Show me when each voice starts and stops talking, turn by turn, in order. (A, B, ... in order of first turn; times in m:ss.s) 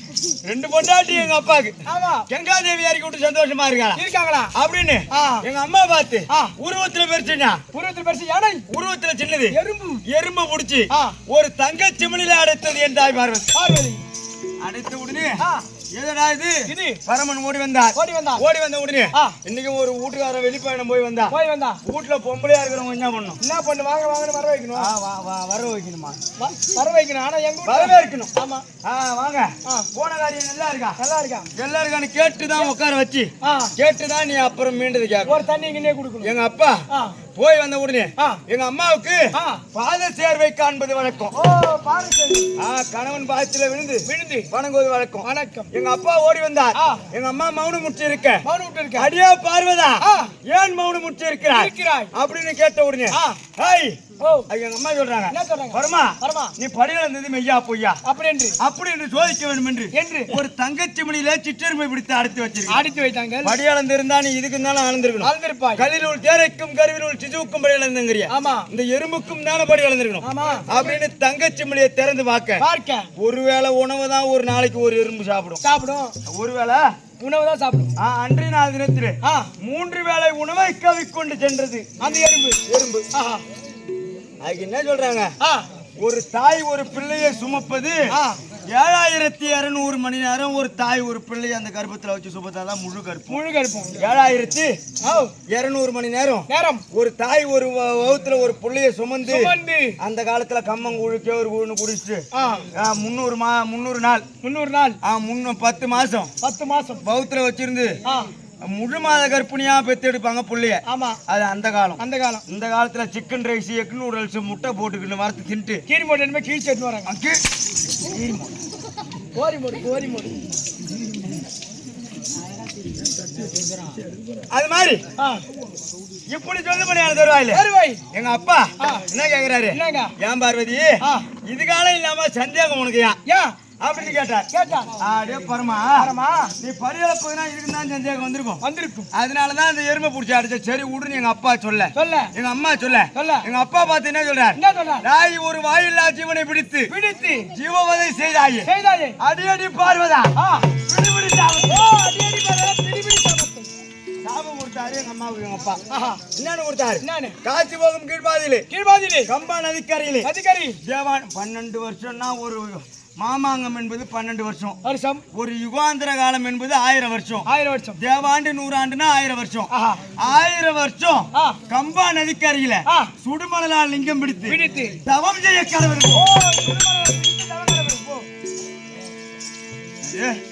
0:00.4-0:01.8 A
0:01.9-0:02.3 B
0:02.3-0:04.0 A
0:04.0-0:04.5 B
0:04.6-0:07.6 A
0:05.1-0:05.4 B
0:07.7-0:08.7 B
0:08.7-0:13.5 A
0:09.5-0:10.0 B
0:10.9-0:11.2 B
0:13.5-0:14.0 B
0:14.6-0:15.4 A
0:15.4-0:15.6 B
0:15.9-0:23.4 A
0:16.7-0:17.0 B
0:18.0-0:18.4 B
0:21.3-0:21.8 B
0:23.4-0:24.9 B
0:24.8-0:26.2 A
0:26.4-0:28.6 B
0:27.7-0:28.3 A
0:28.8-0:31.0 A
0:31.0-0:31.5 B
0:31.6-0:35.4 A
0:33.4-0:33.7 B
0:35.3-0:36.3 B
0:36.2-0:36.8 A
0:36.9-0:37.2 B
0:37.4-0:41.3 A
0:39.3-0:39.6 B
0:41.4-0:42.5 B
0:42.6-0:48.4 A
0:44.1-0:44.5 B
0:45.2-0:45.7 B
0:46.8-0:47.1 B
0:48.4-0:49.1 B
0:49.0-0:58.0 A
0:50.0-0:50.3 B
0:51.5-0:52.1 B
0:53.1-0:53.4 B
0:54.2-0:54.5 B
0:55.3-0:56.5 B
0:58.0-0:58.6 B
0:58.6-1:02.8 A
0:59.9-1:00.4 B
1:02.7-1:03.6 B
1:03.4-1:12.6 A
1:05.2-1:05.8 B
1:08.3-1:08.7 B
1:10.2-1:11.0 B
1:12.6-1:13.1 B
1:13.2-1:15.6 A
1:15.6-1:16.2 B
1:16.3-1:16.9 A
1:17.2-1:17.9 B
1:18.0-1:21.9 A
1:19.2-1:19.5 B
1:22.0-1:22.6 B
1:22.7-1:23.1 A
1:23.1-1:23.4 B
1:24.4-1:25.3 A
1:26.0-1:28.1 A
1:28.1-1:28.4 B
1:28.7-1:33.4 A
1:33.3-1:34.0 B
1:34.0-1:34.7 A
1:35.0-1:35.3 B
1:35.5-1:44.3 A
1:36.5-1:36.8 B
1:39.3-1:40.0 B
1:42.3-1:42.7 B
1:44.4-1:45.0 B
1:45.0-1:46.3 A
1:46.4-1:47.0 B
1:47.0-1:48.0 A
1:48.0-1:48.3 B
1:48.6-1:55.8 A
1:50.9-1:51.2 B
1:52.0-1:52.4 B
1:55.9-1:57.1 B
1:57.1-1:58.5 A
1:59.4-2:00.4 B
2:04.5-2:05.0 A
2:05.2-2:05.4 B
2:06.3-2:13.2 A
2:07.5-2:08.0 B
2:08.8-2:09.1 B
2:09.7-2:10.1 B
2:11.0-2:11.3 B
2:13.3-2:13.6 B
2:13.8-2:14.5 A
2:14.5-2:14.9 B
2:15.0-2:18.6 A
2:16.0-2:16.5 B
2:18.6-2:19.1 B
2:19.1-2:26.9 A
2:22.0-2:22.3 B
2:23.1-2:23.4 B
2:24.6-2:25.0 B
2:26.9-2:27.5 B
2:27.5-2:28.7 A
2:28.6-2:29.2 B
2:29.2-2:31.9 A
2:30.4-2:30.7 B
2:31.6-2:33.7 B
2:34.2-2:35.8 A
2:35.9-2:36.2 B
2:36.3-2:38.7 A
2:37.0-2:37.4 B
2:38.7-2:39.3 B
2:39.3-2:40.3 A
2:40.2-2:40.8 B
2:40.8-2:44.8 A
2:44.8-2:45.2 B
2:45.3-2:56.3 A
2:47.5-2:48.0 B
2:49.7-2:50.0 B
2:51.3-2:51.6 B
2:52.9-2:53.1 B
2:54.5-2:55.0 B
2:56.1-2:58.2 B
3:00.0-3:00.4 A